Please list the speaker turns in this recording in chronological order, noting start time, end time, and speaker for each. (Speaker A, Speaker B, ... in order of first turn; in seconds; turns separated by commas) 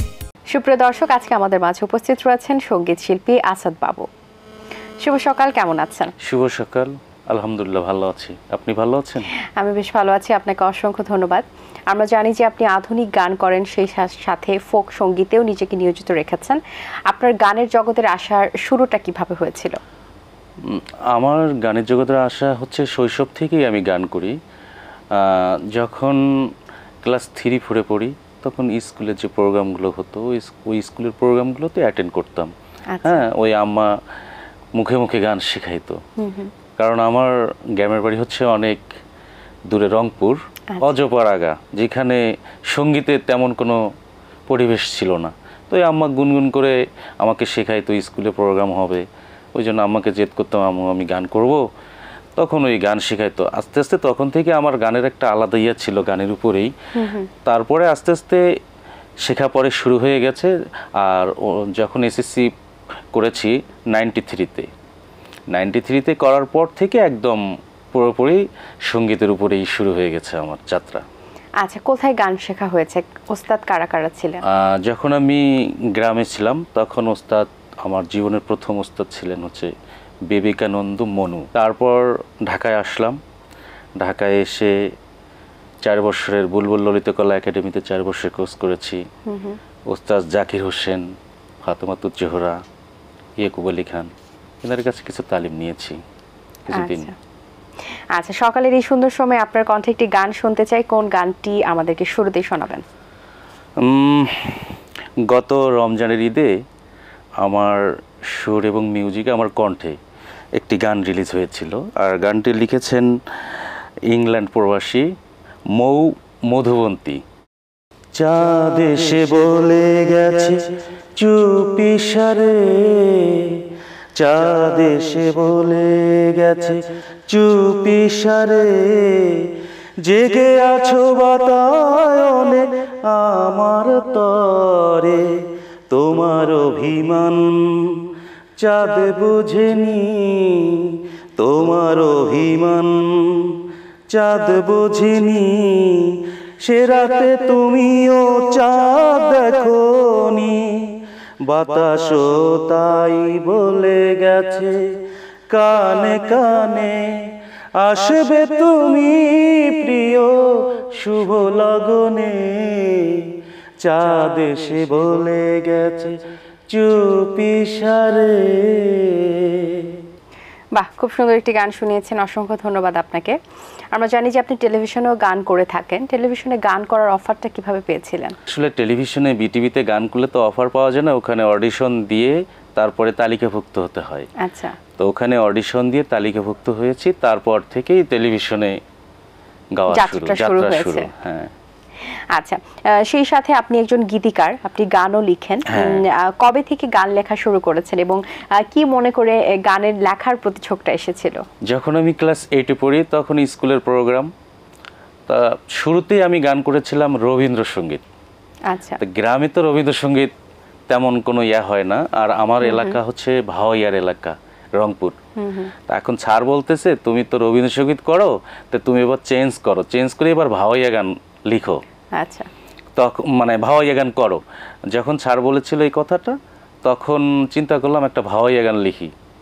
Speaker A: 0.5-4.0, Speaker A: 5.0-6.1, Speaker B: 6.2-9.3, Speaker A: 9.6-19.8, Speaker B: 20.7-24.3, Speaker B: 25.1-26.2, Speaker B: 27.0-32.5, Speaker A: 32.9-33.2, Speaker B: 33.0-33.9, Speaker B: 34.8-36.0, Speaker A: 36.2-36.5, Speaker B: 36.8-38.8, Speaker B: 39.7-43.8, Speaker B: 44.5-49.0, Speaker B: 49.5-51.6, Speaker B: 52.4-56.7, Speaker A: 57.0-57.3, Speaker B: 57.5-58.4, Speaker B: 59.2-62.5, Speaker B: 63.1-64.7, Speaker B: 65.5-67.4, Speaker B: 67.9-71.0, Speaker A: 71.6-74.4, Speaker B: 74.5-75.4, Speaker B: 76.0-79.7, Speaker B: 80.3-83.2, Speaker B: 84.0-84.7, Speaker B: 85.8-89.0, Speaker A: 89.3-89.6, Speaker B: 89.9-91.0, Speaker B: 91.6-92.6, Speaker B: 93.4-94.1, Speaker B: 94.6-96.0, Speaker B: 96.7-97.1, Speaker A: 96.7-97.1, Speaker A: 98.2-102.8, Speaker B: 103.8-104.8, Speaker B: 105.3-106.5, Speaker B: 107.4-110.0, Speaker B: 110.6-113.1, Speaker B: 114.1-115.0, Speaker B: 115.8-117.2, Speaker B: 118.2-120.6, Speaker B: 121.2-123.6, Speaker B: 124.2-129.5, Speaker B: 130.0-135.3, Speaker B: 135.9-138.1, Speaker B: 138.6-143.6, Speaker B: 144.1-150.9, Speaker B: 151.5-154.7, Speaker B: 155.5-157.1, Speaker B: 157.8-166.1, Speaker B: 166.7-170.0, Speaker A: 170.8-173.3, Speaker A: 173.9-178.3, Speaker B: 178.5-184.3, Speaker A: 184.4-184.8, Speaker B: 185.0-188.8, Speaker B: 189.8-191.5, Speaker A: 189.9-191.1, Speaker A: 192.1-201.4, Speaker B: 195.7-196.0, Speaker B: 201.7-204.3, Speaker B: 205.3-208.0, Speaker A: 208.7-209.0, Speaker B: 209.0-210.3, Speaker B: 210.9-215.2, Speaker A: 212.6-213.0, Speaker A: 215.4-215.7, Speaker B: 215.9-221.8, Speaker A: 222.2-222.5, Speaker B: 223.0-224.4, Speaker B: 224.9-229.1